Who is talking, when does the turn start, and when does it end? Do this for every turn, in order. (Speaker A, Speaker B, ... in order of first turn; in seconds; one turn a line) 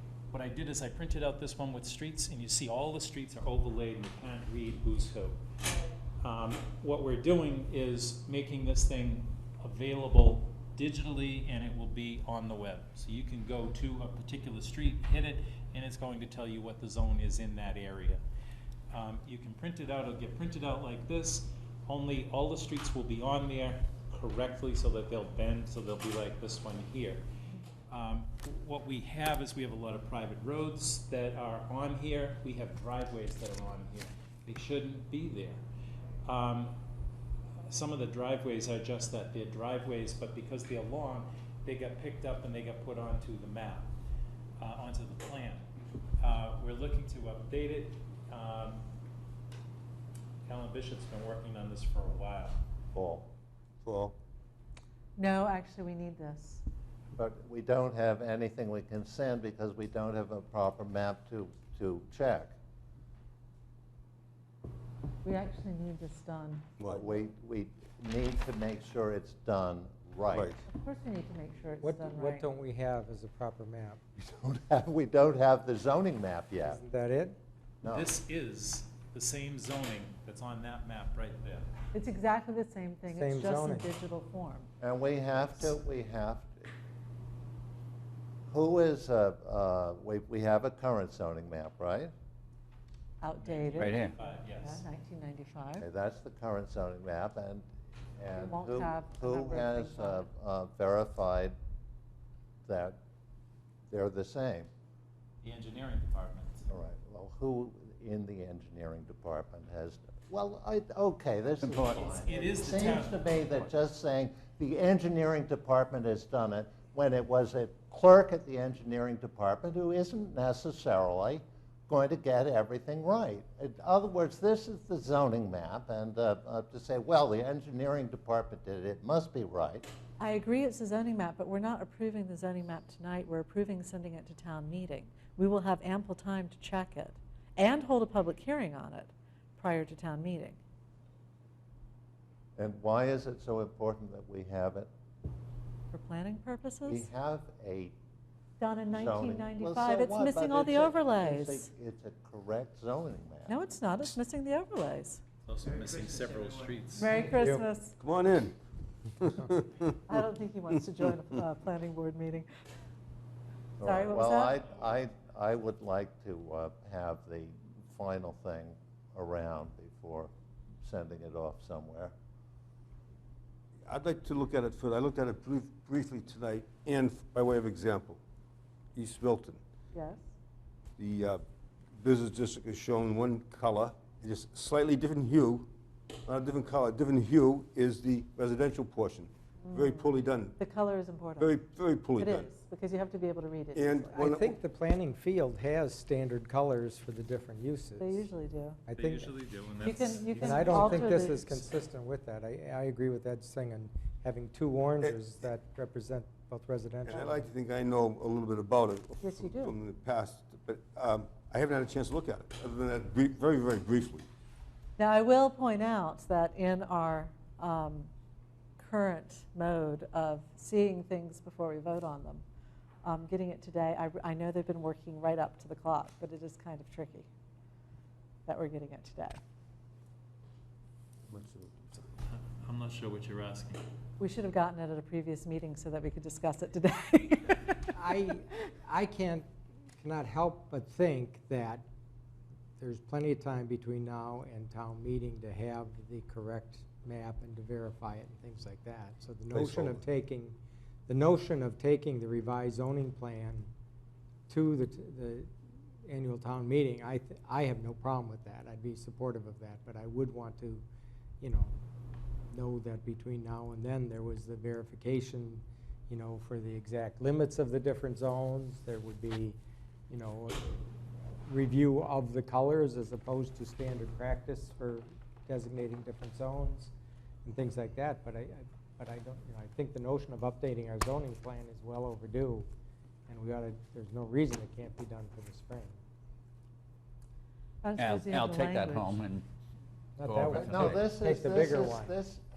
Speaker A: 0.3-5.4
Speaker A: 6.2-18.2
Speaker A: 18.9-27.2
Speaker A: 27.9-35.6
Speaker A: 36.2-36.8
Speaker A: 37.7-43.9
Speaker A: 44.6-45.7
Speaker A: 46.2-48.9
Speaker A: 50.5-52.6
Speaker B: 52.9-53.3
Speaker C: 53.8-54.1
Speaker D: 55.2-56.6
Speaker B: 57.2-62.5
Speaker D: 65.2-66.7
Speaker C: 66.8-67.1
Speaker B: 66.9-70.5
Speaker C: 70.3-70.6
Speaker D: 70.7-72.5
Speaker E: 71.8-74.0
Speaker B: 74.2-76.8
Speaker E: 76.6-77.4
Speaker B: 77.8-78.1
Speaker A: 77.9-81.7
Speaker D: 81.9-84.7
Speaker E: 83.1-83.9
Speaker B: 84.8-86.5
Speaker B: 88.5-92.1
Speaker D: 93.2-95.8
Speaker A: 93.4-94.9
Speaker F: 93.8-94.2
Speaker B: 95.8-101.5
Speaker D: 98.3-100.3
Speaker B: 102.7-103.0
Speaker B: 103.9-104.7
Speaker A: 105.4-106.7
Speaker B: 106.7-129.9
Speaker A: 111.6-113.6
Speaker D: 130.2-140.6
Speaker B: 142.6-144.9
Speaker D: 145.9-147.1
Speaker B: 146.9-148.0
Speaker D: 148.6-151.7
Speaker B: 148.9-153.6
Speaker D: 153.5-155.2
Speaker A: 155.5-157.2
Speaker D: 157.0-157.9
Speaker E: 157.4-157.6
Speaker C: 158.0-158.6
Speaker C: 159.2-159.9
Speaker D: 160.1-162.5
Speaker B: 163.8-170.3
Speaker D: 163.8-164.6
Speaker B: 170.8-172.1
Speaker C: 173.9-178.2
Speaker C: 178.9-179.6
Speaker D: 179.9-180.3
Speaker C: 181.0-181.4
Speaker C: 182.0-185.7
Speaker C: 186.3-190.6
Speaker D: 189.6-191.6
Speaker C: 191.4-192.5
Speaker D: 192.2-194.3
Speaker C: 193.8-194.6
Speaker E: 194.1-198.3
Speaker D: 198.0-198.8
Speaker E: 198.9-199.4
Speaker A: 198.9-201.4
Speaker D: 199.8-201.6
Speaker E: 200.4-207.5
Speaker C: 207.1-214.3
Speaker D: 209.2-209.8
Speaker D: 215.0-218.1
Speaker D: 218.8-222.4
Speaker D: 223.0-227.3
Speaker D: 228.5-229.4
Speaker C: 231.3-231.7
Speaker A: 231.9-233.8
Speaker D: 234.2-237.9
Speaker E: 237.9-239.5
Speaker E: 240.0-241.8
Speaker E: 242.8-250.6
Speaker C: 249.5-250.0
Speaker E: 251.1-253.7
Speaker E: 254.5-255.5
Speaker E: 256.1-260.8
Speaker E: 261.4-261.7
Speaker E: 262.5-269.6
Speaker E: 270.1-276.9
Speaker E: 277.4-282.7
Speaker E: 283.3-286.0
Speaker D: 287.8-289.2
Speaker F: 288.0-289.4
Speaker E: 290.2-292.1
Speaker F: 290.2-291.1
Speaker B: 290.5-292.4